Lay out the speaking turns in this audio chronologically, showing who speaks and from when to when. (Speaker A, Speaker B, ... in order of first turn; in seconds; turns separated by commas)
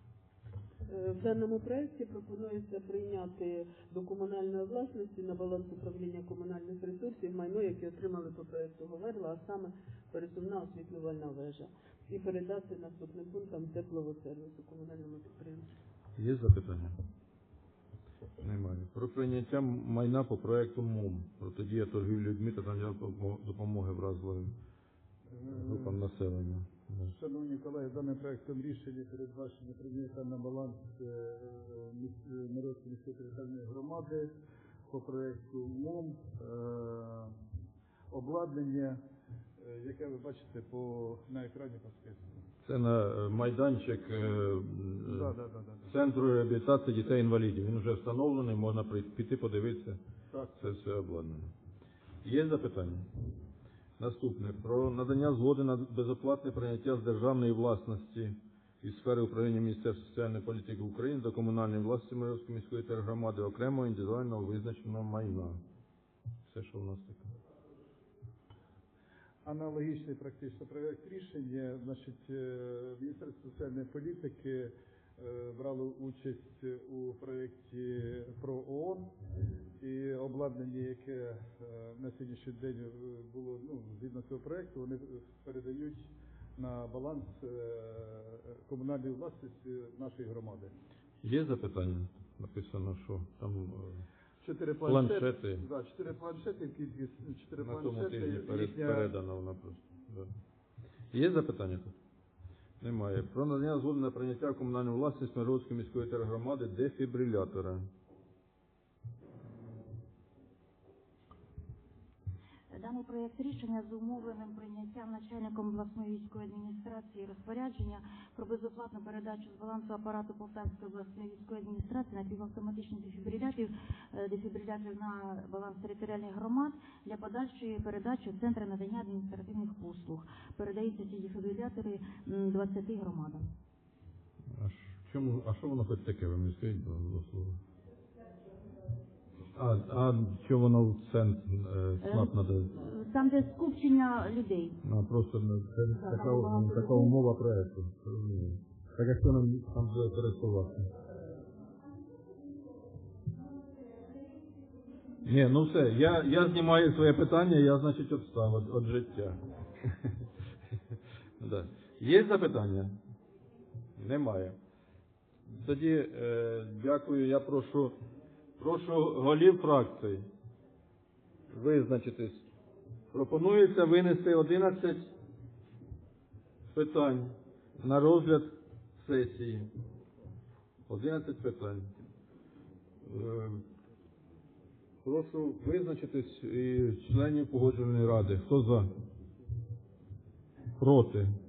Speaker A: 0.9-15.7, Speaker B: 16.2-16.9, Speaker B: 18.4-24.5, Speaker C: 25.4-26.0, Speaker B: 25.5-27.1, Speaker C: 27.1-34.4, Speaker C: 34.9-37.4, Speaker C: 38.1-39.0, Speaker C: 39.6-42.4, Speaker B: 42.6-45.3, Speaker C: 45.0-45.9, Speaker B: 45.9-50.0, Speaker C: 50.3-50.8, Speaker B: 50.6-51.5, Speaker B: 52.2-53.1, Speaker B: 54.0-65.6, Speaker B: 66.5-67.2, Speaker C: 69.5-79.1, Speaker C: 79.8-90.7, Speaker B: 91.2-94.0, Speaker C: 94.4-99.1, Speaker B: 94.8-95.6, Speaker B: 97.6-100.3, Speaker B: 101.1-101.9, Speaker B: 102.8-107.9, Speaker D: 112.7-133.5, Speaker B: 134.6-137.6, Speaker B: 139.6-142.7, Speaker D: 142.0-144.8, Speaker B: 144.8-150.9, Speaker D: 145.9-147.1, Speaker B: 155.2-159.9, Speaker B: 161.4-163.0, Speaker B: 164.0-164.6, Speaker B: 165.5-167.9, Speaker B: 168.6-170.3, Speaker B: 171.5-172.5, Speaker B: 173.1-175.1, Speaker B: 176.7-179.7, Speaker B: 180.9-181.9, Speaker B: 183.1-183.6, Speaker B: 185.0-188.9, Speaker B: 190.8-191.3